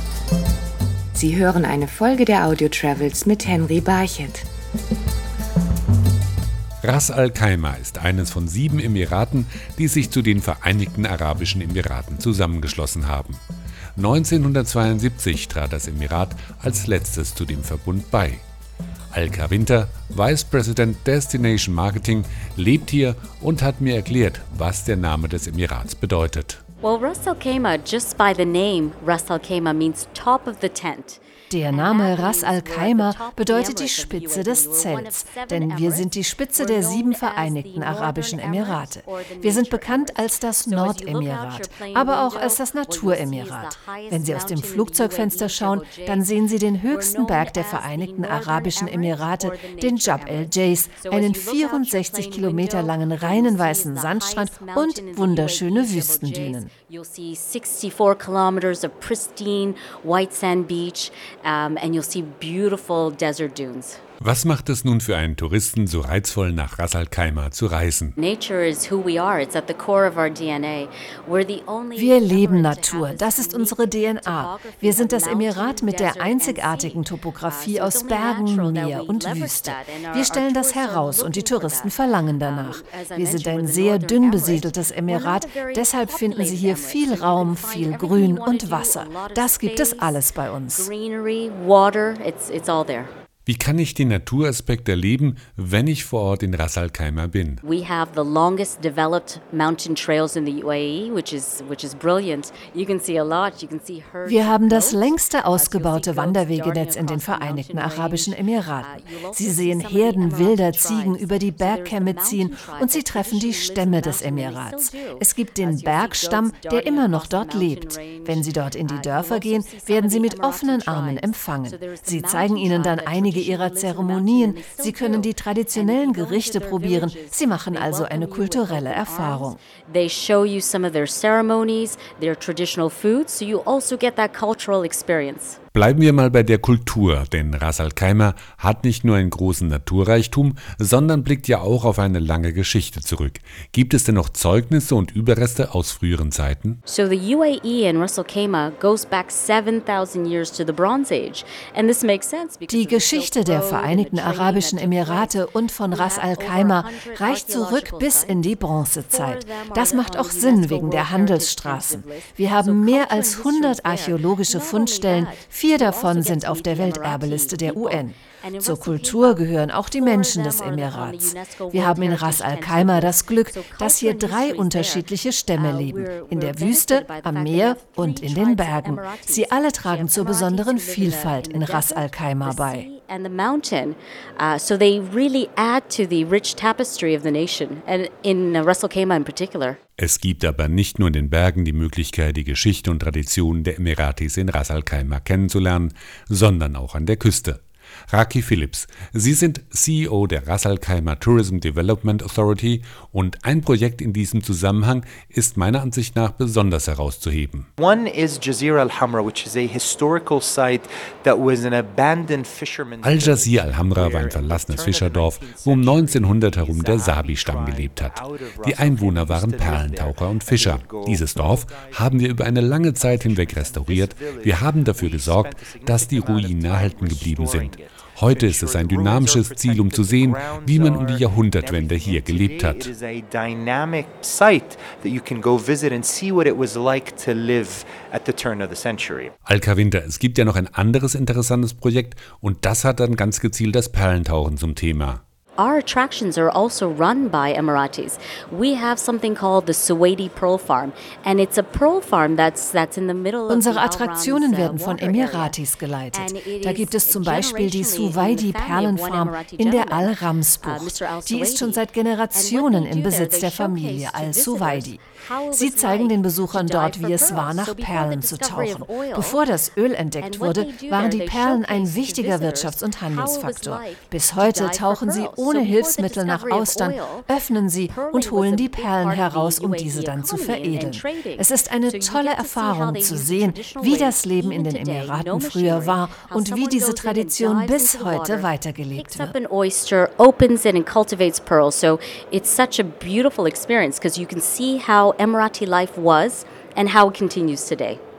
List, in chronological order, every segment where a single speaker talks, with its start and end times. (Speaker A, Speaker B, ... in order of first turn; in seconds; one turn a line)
Speaker A: 1.2-4.5
Speaker B: 6.8-13.4
Speaker B: 14.0-18.4
Speaker B: 19.1-26.6
Speaker C: 26.8-46.3
Speaker D: 31.5-56.7
Speaker C: 46.9-64.0
Speaker B: 64.2-68.2
Speaker C: 68.2-93.1
Speaker D: 71.9-90.9
Speaker B: 93.5-97.6
Speaker C: 97.6-135.6
Speaker D: 104.2-129.6
Speaker B: 135.7-146.8
Speaker C: 146.9-155.3
Speaker D: 152.7-182.9
Speaker C: 155.9-158.5
Speaker C: 159.1-189.8
Speaker B: 190.0-207.7
Speaker E: 207.8-239.3
Speaker B: 213.0-232.9
Speaker B: 239.5-245.2
Speaker C: 245.6-255.6
Speaker D: 253.5-289.3
Speaker C: 256.1-269.4
Speaker C: 270.2-298.0